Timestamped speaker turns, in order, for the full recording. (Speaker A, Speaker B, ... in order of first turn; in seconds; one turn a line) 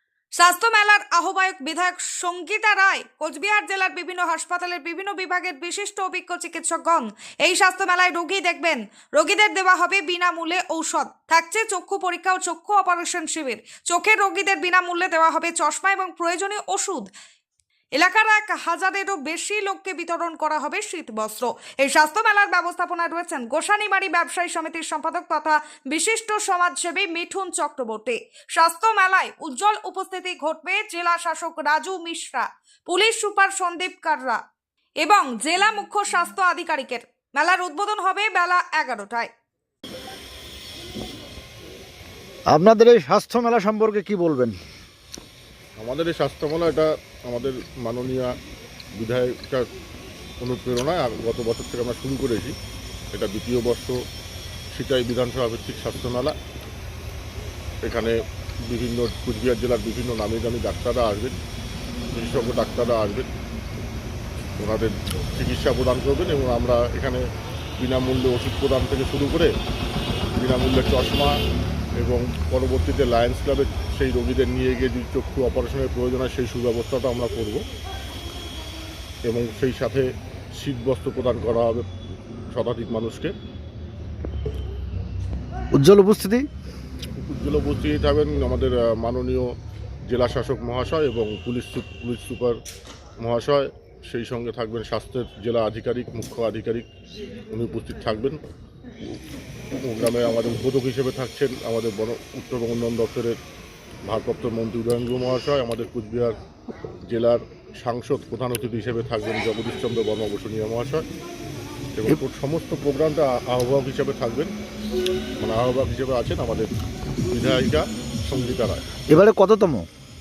Speaker A: 0.4-17.1
Speaker A: 17.9-34.4
Speaker A: 35.0-39.3
Speaker B: 42.5-44.5
Speaker C: 45.8-48.3
Speaker C: 49.0-49.6
Speaker C: 50.4-52.5
Speaker C: 53.1-54.0
Speaker C: 54.7-56.3
Speaker C: 57.8-58.1
Speaker C: 58.7-61.4
Speaker C: 62.1-63.3
Speaker C: 64.6-67.2
Speaker C: 67.8-69.5
Speaker C: 70.4-71.3
Speaker C: 72.0-77.6
Speaker C: 79.2-81.8
Speaker C: 82.5-83.3
Speaker B: 85.8-86.5
Speaker C: 87.2-89.5
Speaker C: 90.1-92.6
Speaker C: 93.2-96.8
Speaker C: 97.5-98.4
Speaker C: 99.8-103.4
Speaker C: 104.0-106.3
Speaker C: 107.1-111.0
Speaker C: 111.9-114.5
Speaker C: 115.4-116.7
Speaker C: 117.3-118.8
Speaker B: 119.1-119.9